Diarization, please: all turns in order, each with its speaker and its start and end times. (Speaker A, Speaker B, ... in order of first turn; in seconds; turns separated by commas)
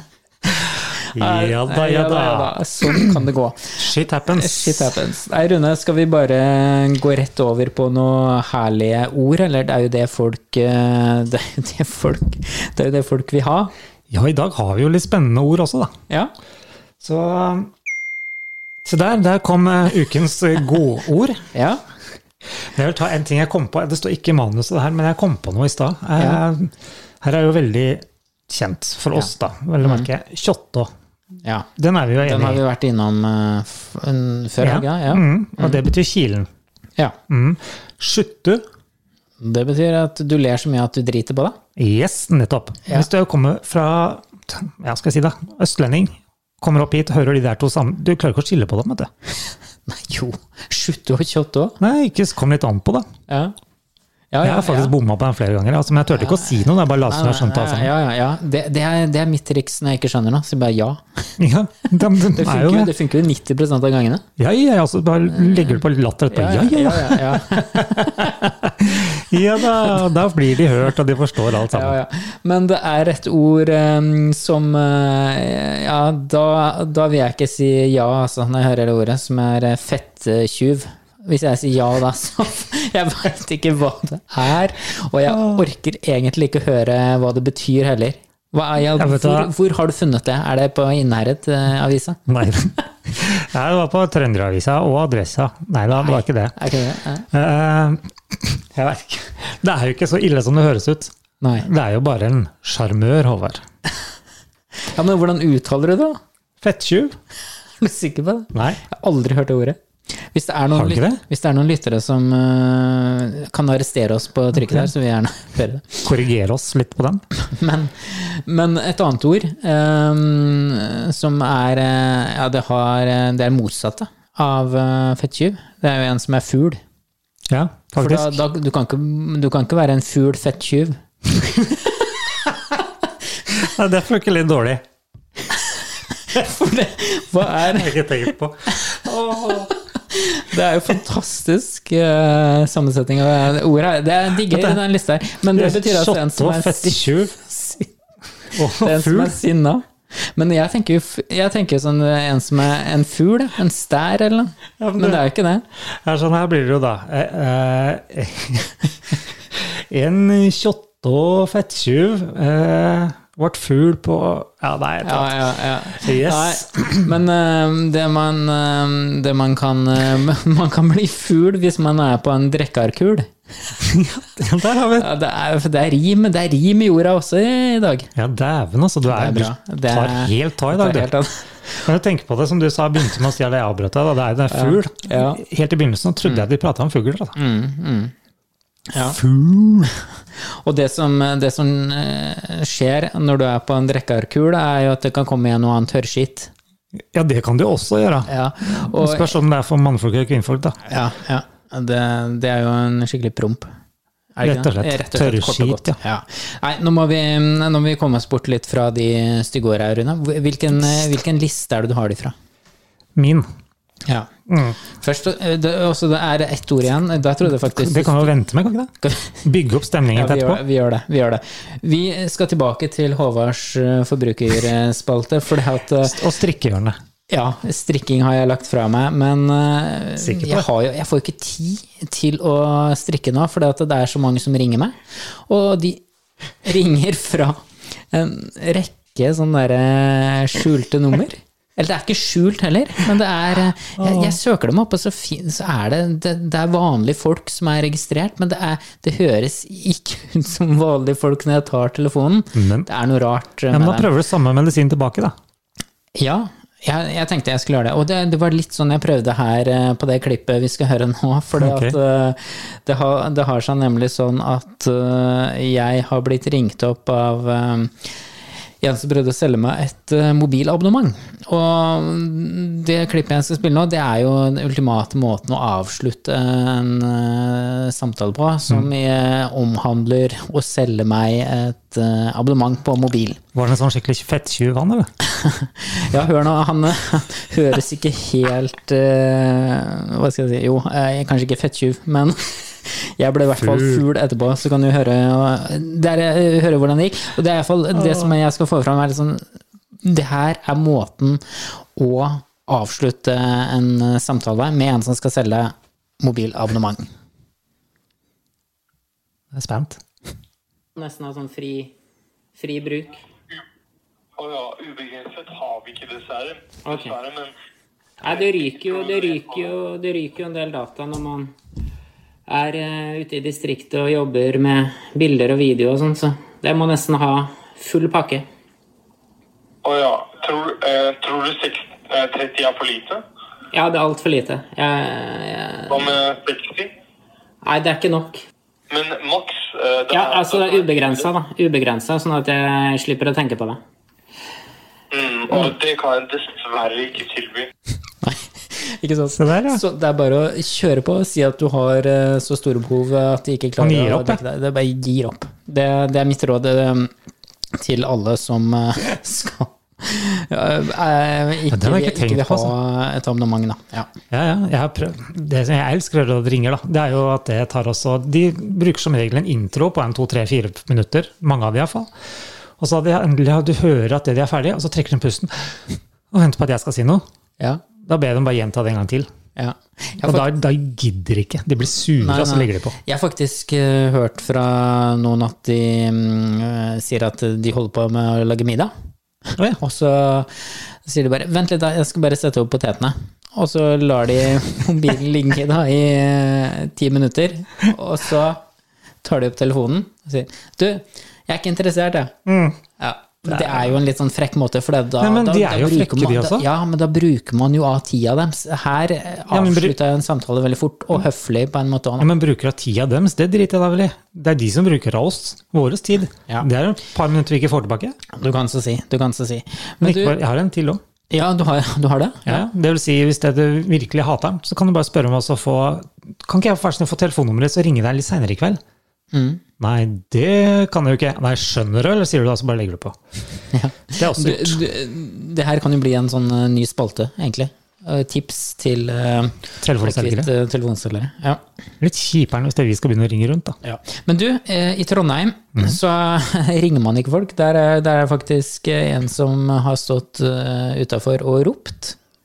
Speaker A: 0.5-13.7, Speaker B: 1.1-3.2, Speaker B: 3.8-5.0, Speaker B: 14.1-15.9, Speaker B: 17.0-17.7, Speaker B: 18.8-21.5, Speaker A: 21.5-21.8, Speaker B: 22.6-30.9, Speaker A: 29.8-30.1, Speaker A: 31.4-31.7, Speaker B: 31.8-32.6, Speaker A: 32.2-35.8, Speaker B: 34.6-36.5, Speaker B: 37.3-38.6, Speaker A: 39.4-41.6, Speaker B: 41.8-49.1, Speaker A: 49.9-51.8, Speaker B: 51.8-53.1, Speaker A: 53.3-53.5, Speaker A: 54.3-54.9, Speaker B: 54.4-57.9, Speaker A: 56.2-61.4, Speaker B: 61.4-62.9, Speaker A: 62.1-64.2, Speaker B: 64.4-72.0, Speaker A: 65.4-65.7, Speaker A: 66.3-68.5, Speaker A: 71.7-92.3, Speaker B: 85.3-85.6, Speaker B: 89.0-89.5, Speaker B: 92.3-96.6, Speaker A: 95.9-97.3, Speaker B: 97.3-103.6, Speaker A: 101.4-101.7, Speaker A: 104.8-106.2, Speaker B: 106.6-107.2, Speaker A: 107.8-116.1, Speaker B: 108.5-108.8, Speaker B: 110.7-111.2, Speaker B: 114.6-114.9, Speaker B: 116.1-117.2, Speaker A: 117.4-126.8, Speaker B: 127.5-128.4, Speaker A: 128.0-131.9, Speaker B: 133.5-134.8, Speaker A: 136.1-138.2, Speaker B: 137.5-139.7, Speaker A: 138.7-147.9, Speaker B: 144.5-144.8, Speaker B: 145.5-147.4, Speaker B: 148.5-149.4, Speaker A: 148.5-155.7, Speaker B: 154.8-155.3, Speaker B: 155.8-166.8, Speaker A: 165.0-173.7, Speaker B: 173.8-175.1, Speaker A: 174.9-178.1, Speaker B: 178.2-181.1, Speaker A: 179.1-181.8, Speaker B: 181.8-187.4, Speaker A: 184.5-185.4, Speaker A: 187.4-188.1, Speaker A: 188.9-189.2, Speaker B: 188.9-189.9, Speaker A: 190.3-196.5, Speaker B: 197.1-200.8, Speaker A: 198.3-199.4, Speaker A: 200.9-203.7, Speaker A: 204.3-212.3, Speaker B: 204.4-206.0, Speaker B: 213.2-213.5, Speaker B: 214.5-214.8, Speaker A: 214.9-218.3, Speaker B: 217.6-220.6, Speaker A: 219.0-219.4, Speaker A: 220.1-226.2, Speaker B: 226.0-227.0, Speaker A: 227.3-236.0, Speaker B: 230.2-230.7, Speaker A: 236.6-254.1, Speaker B: 244.0-244.4, Speaker B: 252.6-252.9, Speaker B: 253.7-255.3, Speaker A: 256.1-268.1, Speaker B: 261.6-262.0, Speaker A: 268.8-283.4, Speaker B: 283.5-285.1, Speaker A: 285.2-299.4, Speaker B: 293.6-294.0, Speaker B: 297.9-298.3, Speaker A: 300.0-307.1, Speaker B: 309.5-310.0, Speaker A: 311.0-311.9, Speaker A: 312.6-313.2, Speaker C: 314.4-317.5, Speaker A: 316.9-317.2, Speaker A: 318.2-321.5, Speaker C: 318.3-319.7, Speaker A: 322.5-328.5, Speaker C: 329.8-333.2, Speaker A: 333.7-336.1, Speaker C: 335.9-336.9, Speaker A: 337.6-338.4, Speaker C: 338.9-341.3, Speaker A: 340.1-343.8, Speaker C: 345.1-347.7, Speaker A: 348.2-357.1, Speaker B: 349.3-349.8, Speaker B: 353.8-354.4, Speaker A: 357.7-364.1, Speaker B: 361.7-362.7, Speaker B: 364.3-372.1, Speaker B: 372.8-377.2, Speaker B: 378.0-379.3, Speaker A: 379.6-380.5, Speaker B: 380.2-382.9, Speaker A: 382.2-388.9, Speaker A: 389.8-398.6, Speaker A: 399.2-402.3, Speaker B: 402.5-402.8, Speaker A: 403.0-412.3, Speaker B: 403.5-403.9, Speaker B: 405.2-406.7, Speaker B: 409.5-410.0, Speaker B: 412.2-418.2, Speaker A: 418.3-420.4, Speaker B: 420.0-421.0, Speaker A: 421.3-422.7, Speaker B: 422.5-428.8, Speaker A: 429.3-429.6, Speaker B: 429.8-433.2, Speaker A: 433.7-441.6, Speaker B: 434.1-434.8, Speaker B: 439.8-440.5, Speaker B: 442.0-443.8, Speaker A: 443.8-452.2